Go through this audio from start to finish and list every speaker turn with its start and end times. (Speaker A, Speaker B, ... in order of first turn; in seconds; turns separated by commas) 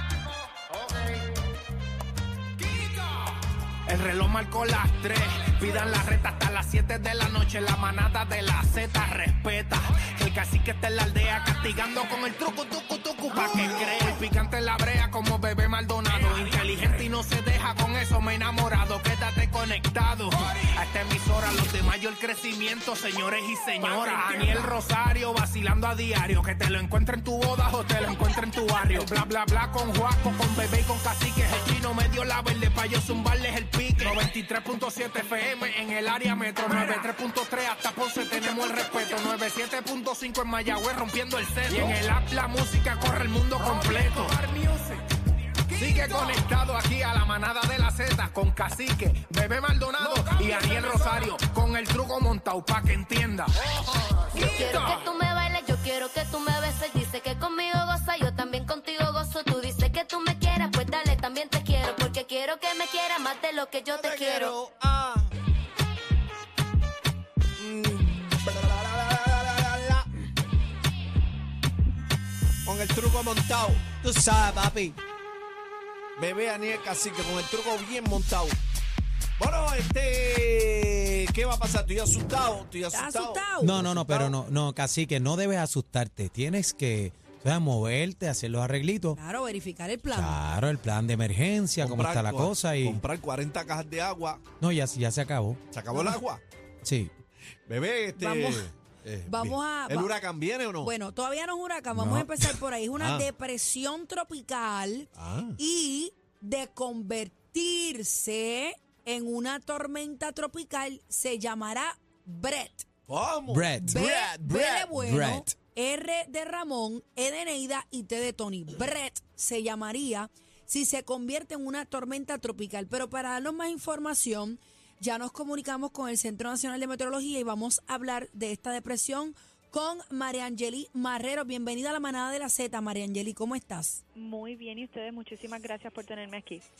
Speaker A: 3.9-45.0, Speaker A: 45.7-55.1, Speaker B: 54.3-64.5, Speaker C: 63.9-65.3, Speaker C: 67.6-70.0, Speaker C: 72.7-74.0, Speaker D: 74.0-75.0, Speaker C: 76.2-78.6, Speaker C: 79.4-84.3, Speaker E: 82.9-83.8, Speaker D: 83.6-89.2, Speaker E: 89.1-90.4, Speaker D: 90.1-93.0, Speaker C: 91.8-94.4, Speaker D: 94.6-95.6, Speaker C: 95.7-96.4, Speaker D: 96.8-97.1, Speaker C: 97.7-100.9, Speaker E: 98.2-98.7, Speaker E: 99.3-100.1, Speaker E: 100.8-112.9, Speaker D: 101.9-102.3, Speaker C: 102.4-103.3, Speaker C: 105.2-105.6, Speaker C: 113.1-115.0, Speaker D: 113.5-114.0, Speaker E: 113.8-134.0, Speaker D: 114.9-115.5, Speaker F: 134.1-136.6